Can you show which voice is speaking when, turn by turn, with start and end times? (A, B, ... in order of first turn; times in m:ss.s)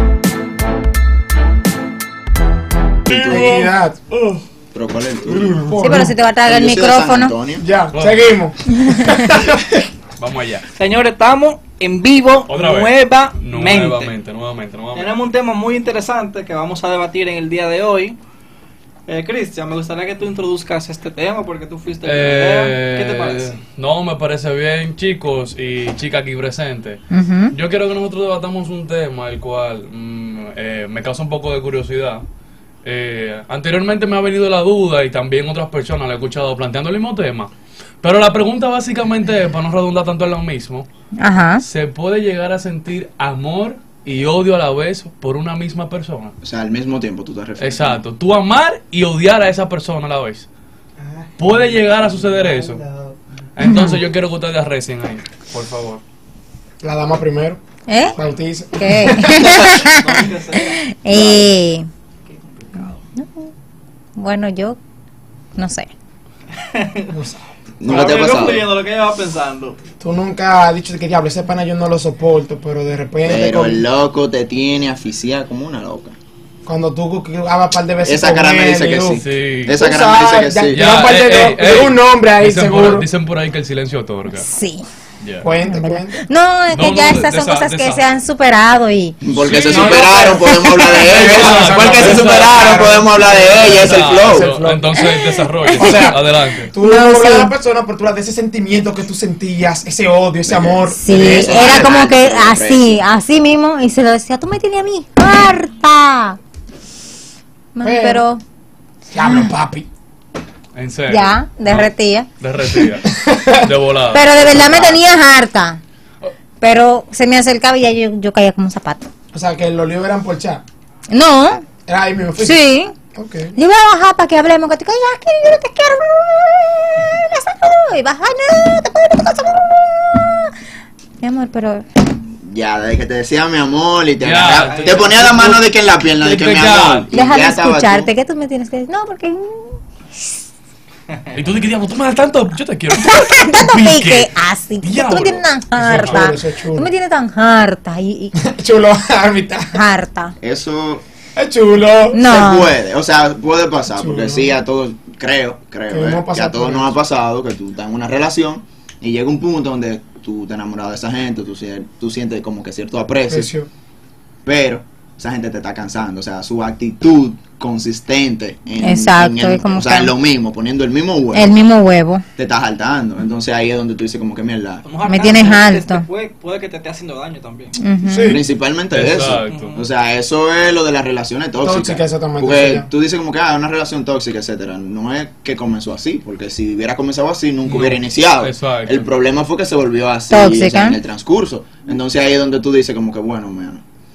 0:03.1-0:03.6 A
0:03.1-0:04.4 B
0:04.7-0:05.6 A
0:05.3-0:06.2 B
0:05.8-0:07.4 C
0:06.4-0:07.6 A
0:07.6-0:09.8 B
0:07.9-0:08.3 D
0:10.2-0:10.6 D
0:10.8-0:14.1 E
0:12.5-0:15.1 D
0:14.9-0:18.2 E
0:19.1-0:23.6 E
0:22.0-0:32.2 D
0:27.1-0:27.5 C
0:32.8-0:40.9 D
0:41.2-0:41.6 C
0:41.6-0:46.3 D
0:46.4-0:48.0 A
0:47.6-0:50.5 D
0:51.4-0:52.8 D
0:53.6-0:56.0 D
0:53.6-0:54.0 C
0:56.8-0:57.6 B
0:57.9-0:58.2 C
0:58.1-0:59.8 B
0:58.8-1:01.9 C
1:00.0-1:00.8 E
1:01.1-1:01.5 A
1:02.3-1:03.0 E
1:03.2-1:03.5 C
1:04.2-1:04.8 C
1:05.6-1:05.9 C
1:06.7-1:07.1 E
1:07.1-1:07.5 B
1:07.8-1:08.7 A
1:07.9-1:09.8 E
1:10.0-1:13.8 B
1:13.2-1:16.2 A
1:16.7-1:19.2 B
1:18.0-1:20.9 A
1:19.2-1:19.8 D
1:19.8-1:23.1 B
1:20.7-1:24.5 D
1:24.3-1:24.8 C
1:25.2-1:25.5 D
1:25.4-1:26.2 B
1:25.6-1:29.2 C
1:26.7-1:28.0 D
1:29.2-1:34.5 A
1:29.3-1:30.3 D
1:29.7-1:30.5 B
1:30.6-1:31.2 C
1:31.0-1:36.7 D
1:31.2-1:35.0 B
1:35.2-1:36.1 C
1:35.8-1:41.6 B
1:36.8-1:37.5 C
1:40.5-1:43.0 A
1:41.0-1:46.4 C
1:47.8-1:48.4 C
1:47.8-1:48.2 B
1:49.1-1:49.9 B
1:49.2-1:49.5 C
1:50.8-1:51.9 D
1:51.1-1:52.3 C
1:52.4-1:53.1 D
1:53.0-1:53.7 B
1:53.6-1:55.0 D
1:54.1-1:55.8 C
1:56.6-1:59.1 C
1:59.3-2:00.6 B
2:01.1-2:01.7 C
2:01.8-2:03.6 B
2:02.4-2:03.0 C
2:03.6-2:10.5 C
2:11.2-2:11.8 C
2:12.4-2:18.1 A
2:14.2-2:15.6 D
2:14.6-2:15.2 E
2:16.2-2:17.1 D
2:17.1-2:19.8 C
2:21.3-2:24.3 D
2:23.0-2:28.4 C
2:24.8-2:26.3 D
2:25.8-2:26.9 B
2:28.4-2:29.8 B
2:29.7-2:30.3 C
2:30.4-2:31.0 A
2:31.4-2:32.2 B
2:32.1-2:32.8 C
2:32.2-2:43.5 A
2:34.0-2:34.6 B
2:35.9-2:36.9 B
2:43.3-2:43.7 B
2:44.4-2:51.6 A
2:48.8-2:50.1 C
2:51.3-2:52.2 C
2:52.4-2:54.9 A
2:54.8-2:57.8 E
2:55.0-2:56.0 C
2:57.8-2:58.4 C
2:58.0-2:58.4 B
2:58.3-3:13.8 A
2:58.9-2:59.8 D
2:59.5-2:59.9 E
3:01.6-3:02.9 B
3:07.7-3:09.1 D
3:10.3-3:11.0 C